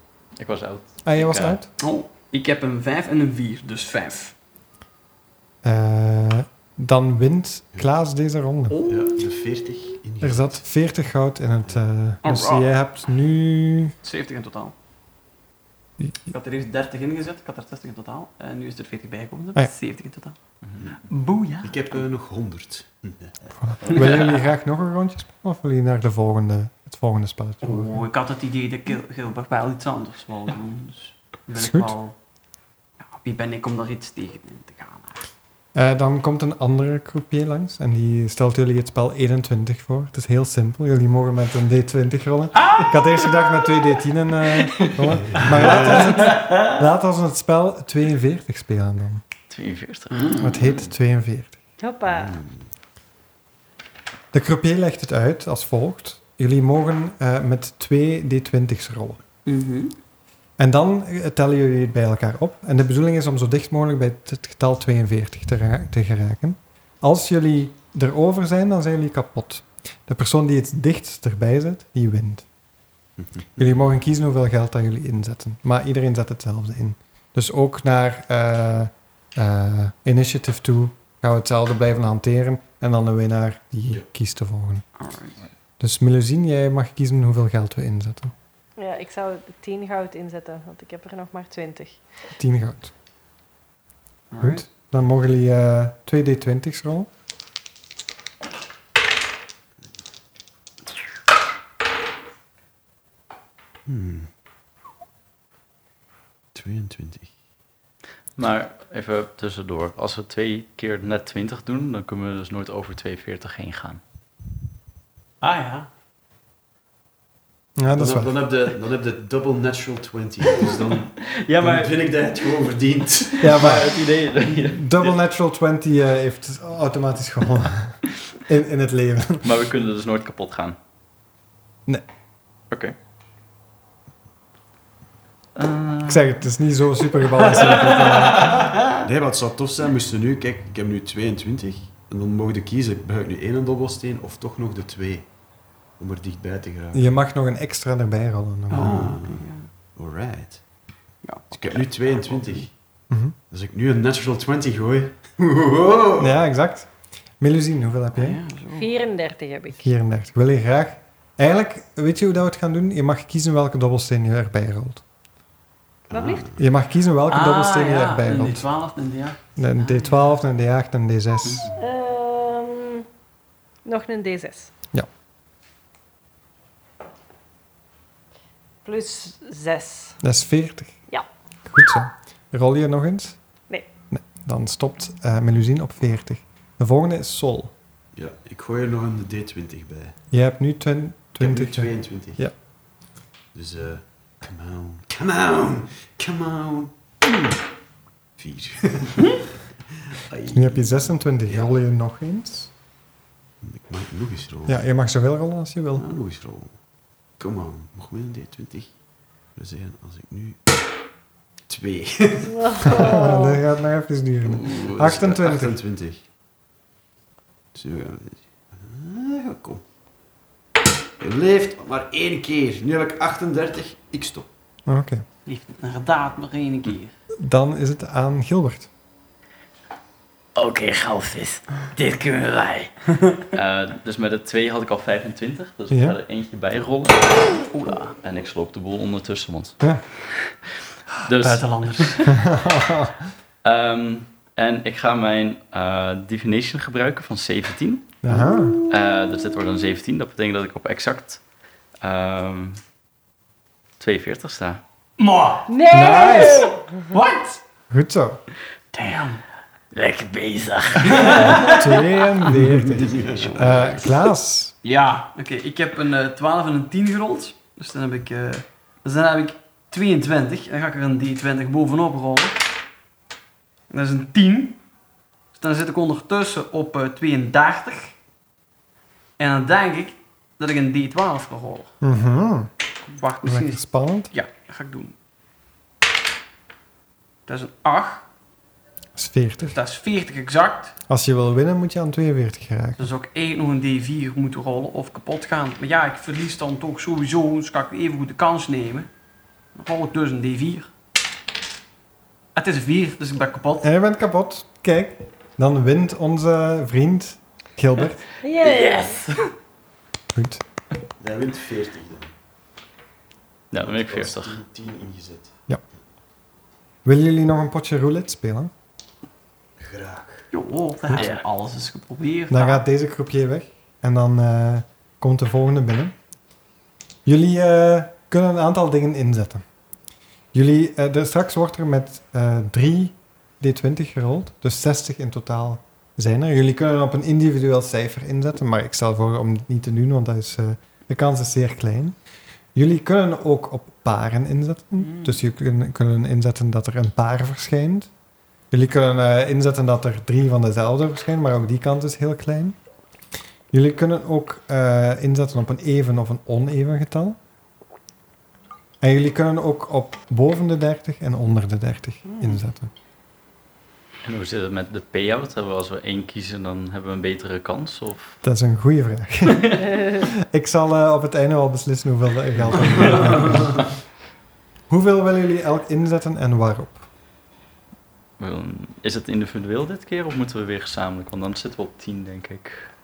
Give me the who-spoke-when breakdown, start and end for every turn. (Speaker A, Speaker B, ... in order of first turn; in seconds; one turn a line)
Speaker A: 0.4-1.6
Speaker B: 1.0-1.7
Speaker C: 1.8-4.3
Speaker B: 5.6-8.8
Speaker C: 8.7-9.2
Speaker D: 8.8-10.6
Speaker B: 10.2-13.9
Speaker C: 12.2-12.7
Speaker C: 14.0-14.7
Speaker C: 16.3-20.4
Speaker C: 21.1-21.8
Speaker D: 21.6-23.4
Speaker B: 23.6-28.0
Speaker C: 23.9-24.2
Speaker C: 27.6-32.1
Speaker B: 31.6-31.9
Speaker C: 33.0-35.2
Speaker B: 35.7-49.2
Speaker C: 42.6-43.4
Speaker D: 45.3-46.0
Speaker A: 49.5-50.5
Speaker C: 50.1-50.5
Speaker B: 50.4-51.5
Speaker E: 51.8-52.4
Speaker D: 52.1-52.6
Speaker B: 54.3-59.2
Speaker C: 59.5-59.9
Speaker B: 60.6-72.5
Speaker D: 73.2-73.7
Speaker B: 73.6-84.8
Speaker C: 85.0-85.4
Speaker B: 85.8-88.3
Speaker E: 88.8-92.0
Speaker B: 92.3-92.9
Speaker C: 94.3-94.6
Speaker B: 94.4-97.1
Speaker D: 103.8-104.3
Speaker D: 106.5-107.3
Speaker A: 108.4-114.0
Speaker C: 115.4-115.9
Speaker B: 117.8-118.4
Speaker D: 117.9-123.7
Speaker A: 121.5-121.9
Speaker B: 123.4-124.0
Speaker A: 123.4-125.1
Speaker B: 124.7-129.5
Speaker A: 129.4-130.8
Speaker A: 135.5-136.3
Speaker B: 136.1-138.7
Speaker C: 137.6-139.0
Speaker D: 139.0-145.3
Speaker D: 146.0-147.1
Speaker B: 146.9-149.2
Speaker C: 148.7-149.7
Speaker D: 148.7-150.6
Speaker C: 151.2-152.7
Speaker D: 151.5-152.7
Speaker B: 153.1-153.3
Speaker D: 153.5-156.4
Speaker B: 156.2-156.9
Speaker B: 157.4-158.4
Speaker C: 158.1-158.9
Speaker E: 158.7-159.8
Speaker B: 159.8-165.0
Speaker D: 166.1-166.6
Speaker E: 166.1-166.5
Speaker B: 166.6-168.7
Speaker C: 167.3-170.2
Speaker B: 169.6-171.7
Speaker E: 171.8-173.1
Speaker E: 173.8-174.7
Speaker E: 178.8-180.2
Speaker B: 180.2-180.9
Speaker B: 181.7-183.4
Speaker B: 184.1-187.7
Speaker D: 188.1-190.2
Speaker B: 190.3-192.5
Speaker D: 191.4-192.4
Speaker D: 193.5-197.6
Speaker D: 198.4-199.4
Speaker D: 200.0-201.7
Speaker B: 200.5-202.7
Speaker D: 203.6-204.8
Speaker B: 204.7-206.1
Speaker D: 205.9-206.7
Speaker D: 207.4-208.9
Speaker D: 209.5-210.8
Speaker D: 211.7-213.0
Speaker E: 212.4-213.6
Speaker B: 212.8-215.8
Speaker D: 214.4-216.2
Speaker D: 217.7-219.8
Speaker D: 221.2-224.5
Speaker B: 224.9-225.2
Speaker C: 225.4-227.1
Speaker B: 227.4-228.9
Speaker A: 230.6-232.9
Speaker C: 233.1-233.4
Speaker A: 233.5-237.6
Speaker B: 235.9-236.2
Speaker C: 237.6-238.1
Speaker A: 238.2-239.8
Speaker A: 241.2-242.3
Speaker C: 241.3-242.3
Speaker B: 242.2-243.2
Speaker A: 243.6-248.2
Speaker B: 248.2-248.8
Speaker A: 248.9-251.4
Speaker A: 252.0-252.8
Speaker A: 254.0-254.8
Speaker C: 255.2-257.6
Speaker E: 255.7-257.0
Speaker B: 255.9-256.7
Speaker B: 257.9-258.4
Speaker C: 258.9-259.4
Speaker A: 259.9-261.6
Speaker C: 261.0-262.0
Speaker B: 261.4-264.7
Speaker D: 262.7-263.9
Speaker C: 263.4-263.7
Speaker C: 264.8-272.6
Speaker C: 273.9-274.8
Speaker C: 275.5-278.1
Speaker C: 279.4-281.9
Speaker B: 282.0-282.7
Speaker C: 283.1-285.1
Speaker B: 283.4-284.3
Speaker C: 287.4-288.2
Speaker B: 289.1-289.8
Speaker C: 289.7-290.9
Speaker B: 291.1-293.1
Speaker C: 293.0-299.1
Speaker C: 299.7-300.9
Speaker C: 302.5-303.9
Speaker B: 303.8-308.2
Speaker E: 308.4-309.2
Speaker A: 308.5-309.5
Speaker B: 310.3-310.6
Speaker D: 311.2-312.3
Speaker A: 313.7-314.6
Speaker D: 313.7-315.5
Speaker B: 317.0-318.7
Speaker D: 319.8-320.5
Speaker C: 320.5-322.8
Speaker A: 321.1-321.4
Speaker B: 322.5-326.1
Speaker B: 327.2-329.6
Speaker B: 330.5-342.1
Speaker B: 342.7-348.1
Speaker C: 345.0-345.4
Speaker B: 348.7-352.8
Speaker B: 353.7-357.4
Speaker B: 359.0-362.9
Speaker C: 362.3-362.6
Speaker A: 364.2-368.4
Speaker B: 368.4-373.8
Speaker A: 372.9-373.6
Speaker B: 374.9-377.1
Speaker A: 378.4-382.9